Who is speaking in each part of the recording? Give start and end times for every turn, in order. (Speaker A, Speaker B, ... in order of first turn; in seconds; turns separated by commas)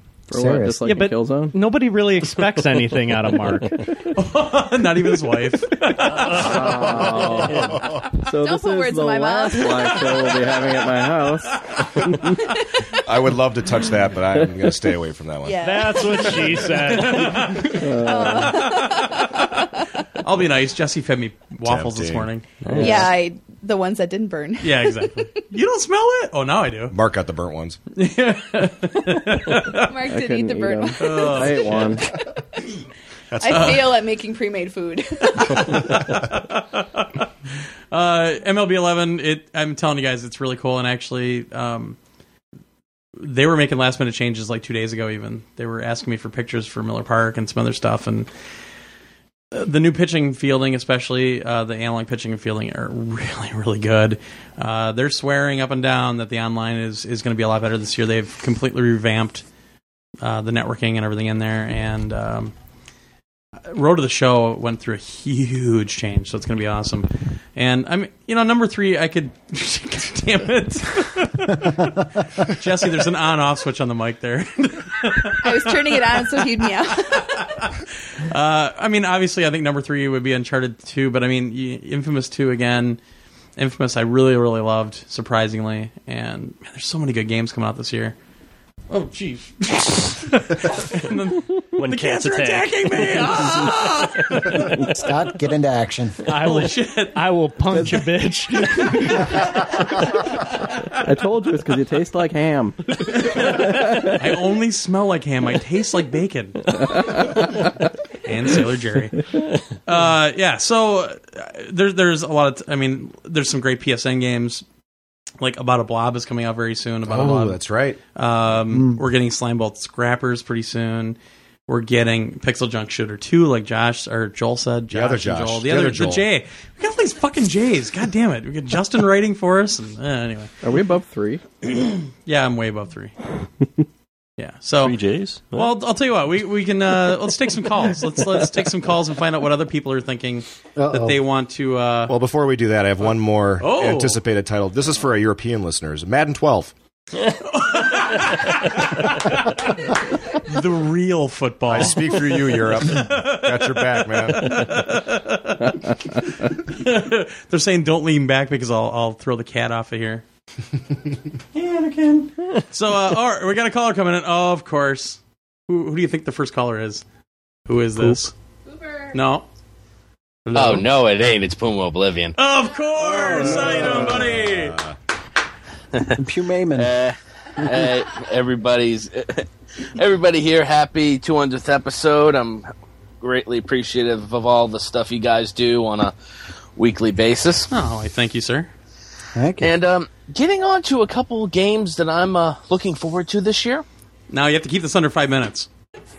Speaker A: 0.3-1.6, Speaker B: 0.3-0.8, Speaker C: 0.8-3.8, Speaker D: 4.1-6.9, Speaker E: 6.0-6.5, Speaker A: 6.3-12.3, Speaker E: 7.4-7.7, Speaker F: 7.5-8.1, Speaker G: 8.2-10.8, Speaker G: 12.3-12.8, Speaker F: 13.0-16.1, Speaker G: 15.4-19.9, Speaker C: 15.6-17.7, Speaker D: 16.8-17.9, Speaker A: 17.7-18.6, Speaker D: 18.5-18.9, Speaker D: 20.2-22.4, Speaker F: 21.6-22.3, Speaker E: 22.6-23.1, Speaker A: 22.7-23.1, Speaker G: 22.7-25.4, Speaker D: 24.6-26.9, Speaker F: 26.9-27.8, Speaker D: 27.9-29.9, Speaker G: 29.7-32.2, Speaker A: 30.1-32.0, Speaker D: 31.0-31.9, Speaker F: 33.3-34.0, Speaker G: 33.4-36.0, Speaker D: 33.5-33.8, Speaker D: 35.4-37.2, Speaker D: 37.9-42.0, Speaker D: 43.2-48.3, Speaker D: 49.5-59.4, Speaker D: 60.2-62.5, Speaker D: 63.7-83.0, Speaker G: 75.4-77.5, Speaker D: 83.6-88.1, Speaker D: 88.9-95.1, Speaker E: 91.8-94.5, Speaker B: 94.6-96.2, Speaker C: 96.2-99.4, Speaker D: 96.3-97.2, Speaker D: 98.8-99.0, Speaker A: 101.0-104.3, Speaker D: 103.1-107.4, Speaker A: 106.8-107.7, Speaker D: 108.2-109.3, Speaker D: 109.8-114.6, Speaker D: 115.4-117.6, Speaker F: 117.0-118.0, Speaker D: 118.1-130.5, Speaker B: 118.7-119.0, Speaker F: 124.9-126.2, Speaker A: 130.6-131.4, Speaker D: 131.6-133.1, Speaker D: 134.4-135.0, Speaker E: 134.8-135.7, Speaker D: 135.5-142.1, Speaker B: 140.8-141.2, Speaker F: 142.1-146.7, Speaker D: 143.6-144.2, Speaker D: 147.4-160.2, Speaker F: 151.7-154.8, Speaker D: 161.5-167.0, Speaker D: 167.7-168.3, Speaker D: 169.1-169.5, Speaker H: 170.5-172.3, Speaker D: 172.4-174.8, Speaker F: 173.1-174.9, Speaker B: 176.2-176.9, Speaker H: 176.8-182.7, Speaker H: 183.2-186.1, Speaker H: 186.8-187.7, Speaker D: 187.7-188.7, Speaker B: 189.3-189.7, Speaker H: 189.6-193.8, Speaker D: 194.3-195.7